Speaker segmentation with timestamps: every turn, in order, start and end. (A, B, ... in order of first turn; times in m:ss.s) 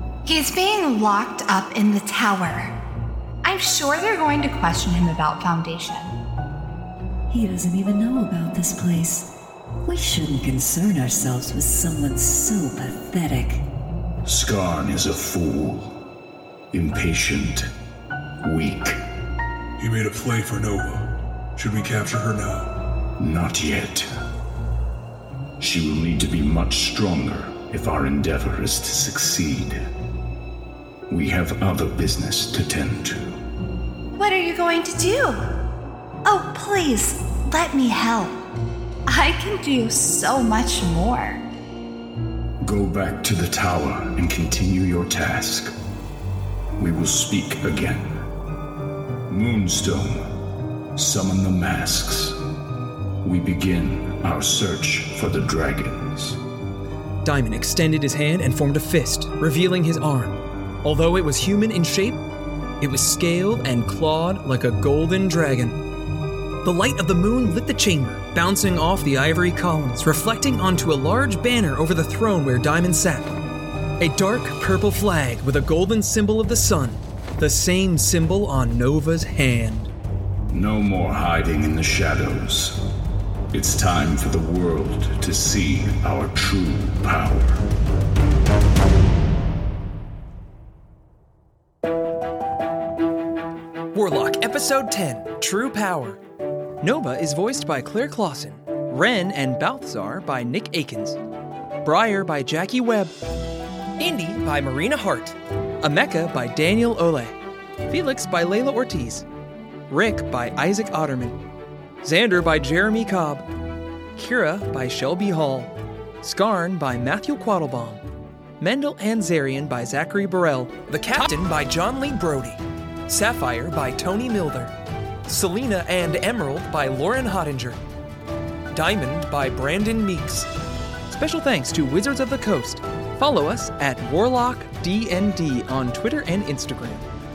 0:00.2-0:02.8 A
0:03.4-0:06.2 A
0:07.3-0:09.3 B
0:09.8-0:13.6 B
0:14.2-0:16.0 C
0:16.7-0:17.7 C
0:18.4-0:19.0 C
0:19.8-0:22.7 D
0:23.2-0:24.1 C
0:25.6-0:29.8 C
0:31.1-0:33.4 C
0:34.1-0:35.5 A
0:36.2-0:38.4 A
0:39.1-0:41.4 A
0:42.6-0:45.7 C
0:46.8-0:48.2 C
0:49.3-0:50.3 C
0:51.0-0:52.4 C
0:53.2-0:56.4 C
0:57.2-1:02.2 E
1:02.8-1:05.8 E
1:06.6-1:13.3 E
1:14.0-1:19.9 E
1:20.5-1:22.8 C
1:23.5-1:27.6 C
1:33.9-1:36.2 E
1:36.8-1:41.2 E
1:41.8-1:43.2 E
1:44.0-1:47.4 E
1:47.9-1:49.2 E
1:49.9-1:51.4 E
1:52.0-1:53.5 E
1:54.2-1:58.0 E
1:58.6-2:04.7 E
2:05.3-2:07.8 E
2:08.7-2:10.5 E
2:11.1-2:17.1 E